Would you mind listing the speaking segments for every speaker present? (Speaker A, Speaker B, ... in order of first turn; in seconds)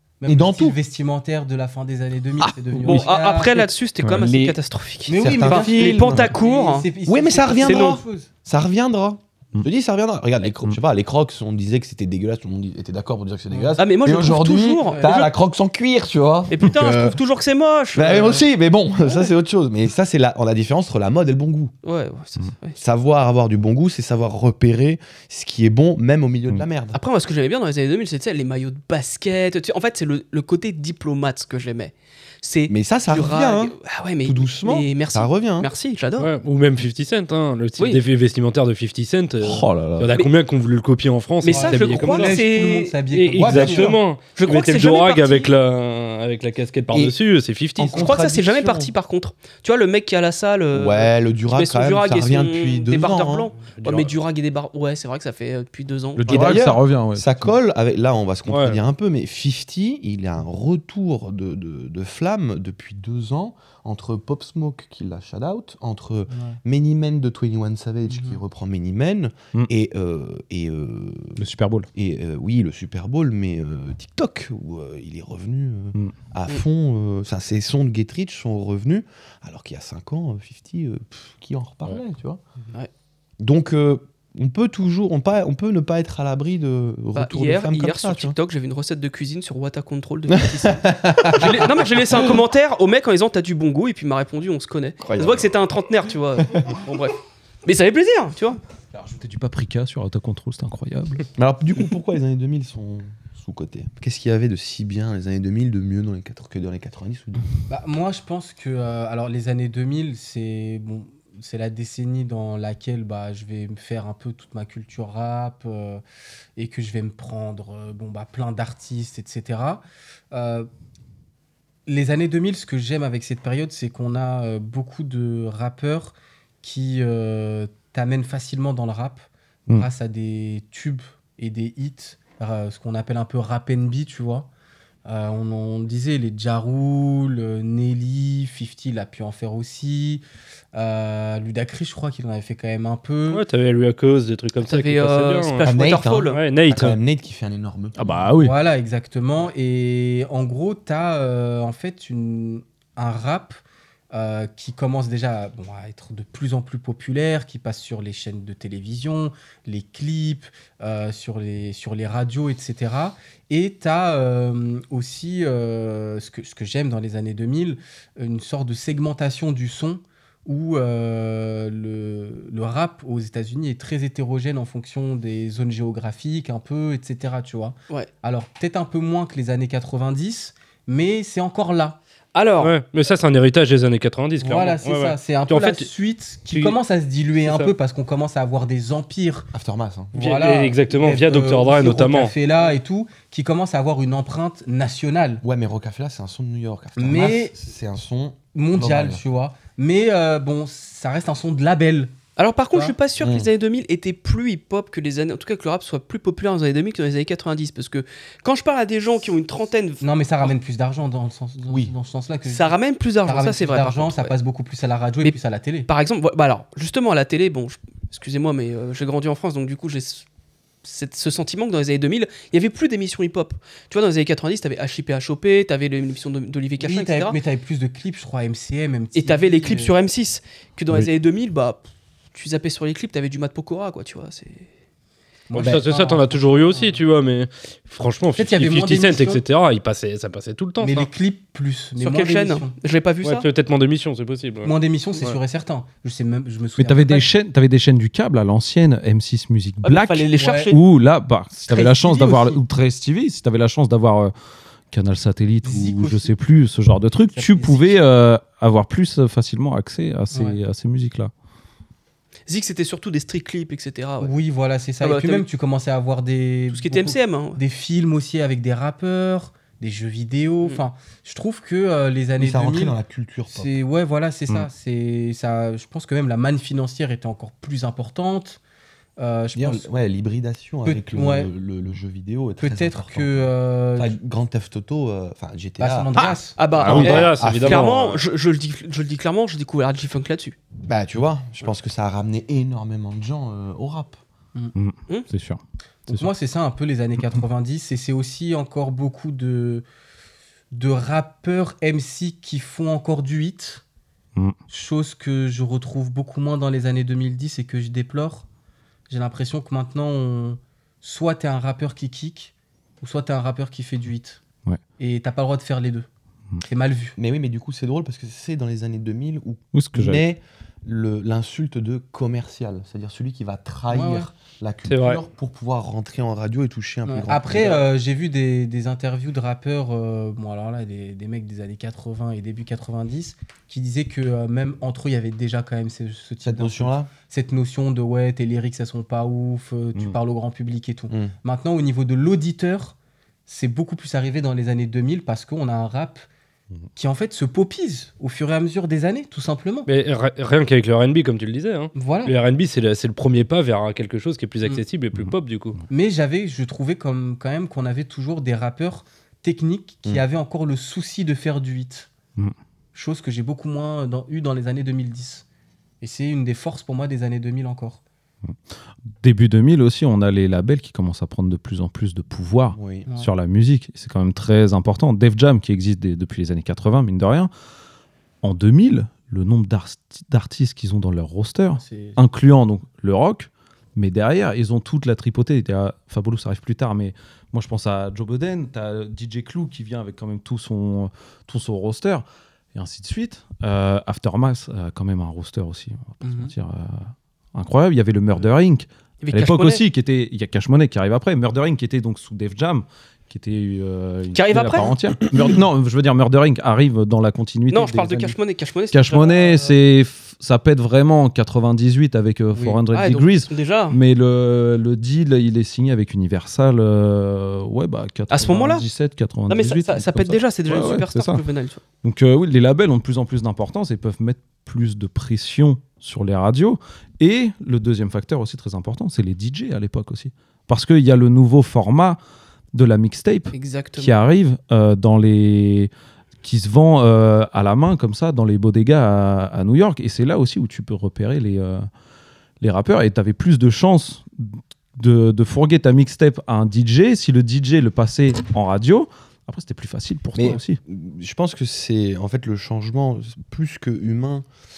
Speaker A: 0.2-3.7, 5.1-8.3, 13.5-13.8, 14.8-15.2, 41.4-44.0, 66.3-66.6, 68.1-68.4, 107.7-116.0, 116.6-120.7, 121.9-134.5, 135.0-140.2, 140.7-143.4, 148.4-153.6, 154.1-182.0, 184.4-189.5, 190.1-195.4, 197.0-197.5, 198.5-202.1, 210.0-212.7, 213.2-215.9, 226.8-229.9, 235.5-237.0, 238.3-239.4, 240.8-242.7, 244.6-247.3, 250.3-250.7, 251.7-252.6, 255.6-256.3, 257.3-258.0, 260.3-260.6, 264.2-273.0, 273.5-278.6, 279.2-279.9, 280.8-281.5, 282.6-284.1, 285.8-286.6, 296.1-299.8, 300.7-303.8, 304.7-308.4, 309.1-314.4, 315.0-316.1, 316.6-317.1, 323.9-324.3, 327.1-346.2, 346.9-349.9, 351.9-352.3, 355.9-362.1, 362.9-365.4, 366.0-368.0, 381.7-382.2, 396.2-396.5, 412.5-412.8
Speaker B: 0.3-0.8, 2.4-3.0, 4.0-4.6, 5.1-6.3, 7.0-17.2, 17.9-21.7, 22.8-27.0, 32.7-35.7, 39.4-40.1, 43.4-44.0, 46.9-47.1, 47.8-48.9, 50.7-53.5, 56.3-82.4, 83.4-88.3, 90.3-92.4, 95.0-95.5, 101.3-107.5, 145.6-148.1, 189.5-190.2, 195.4-199.2, 203.2-203.5, 272.4-273.7, 279.5-287.9, 290.9-294.2, 317.1-327.9, 336.4-337.1, 372.7-373.1, 450.3-454.4
Speaker C: 2.8-6.9, 7.6-8.0, 13.8-15.3, 16.5-18.4, 21.8-22.8, 26.9-36.3, 41.4-43.0, 44.3-45.5, 47.9-56.6, 87.1-98.6, 144.6-146.4, 182.3-182.7, 202.4-210.5, 212.5-214.3, 215.9-220.2, 220.8-227.4, 229.1-234.7, 242.0-243.5, 249.8-250.8, 262.5-264.3, 265.0-265.4, 266.7-267.6, 286.6-290.6, 399.2-399.8, 404.3-404.9, 407.7-409.8, 412.9-414.0, 418.3-418.9, 419.5-421.8, 433.5-434.1
Speaker D: 36.2-42.4, 43.1-48.1, 53.7-54.1, 58.5-58.8, 143.3-145.7, 146.3-147.0, 182.6-185.9, 186.5-186.8, 187.4-187.7, 190.2-192.3, 235.5-241.1, 243.2-245.4, 286.9-288.2, 324.9-325.2, 349.9-355.8
Speaker E: 39.4-40.1, 56.2-57.5, 71.4-71.9, 98.9-101.2, 148.0-148.5, 246.8-254.3, 254.9-261.3, 286.1-287.2, 294.7-296.3, 319.7-320.2, 369.2-377.5, 378.4-408.4, 408.9-421.4, 422.0-432.2, 432.7-435.9, 436.4-441.9, 442.6-450.8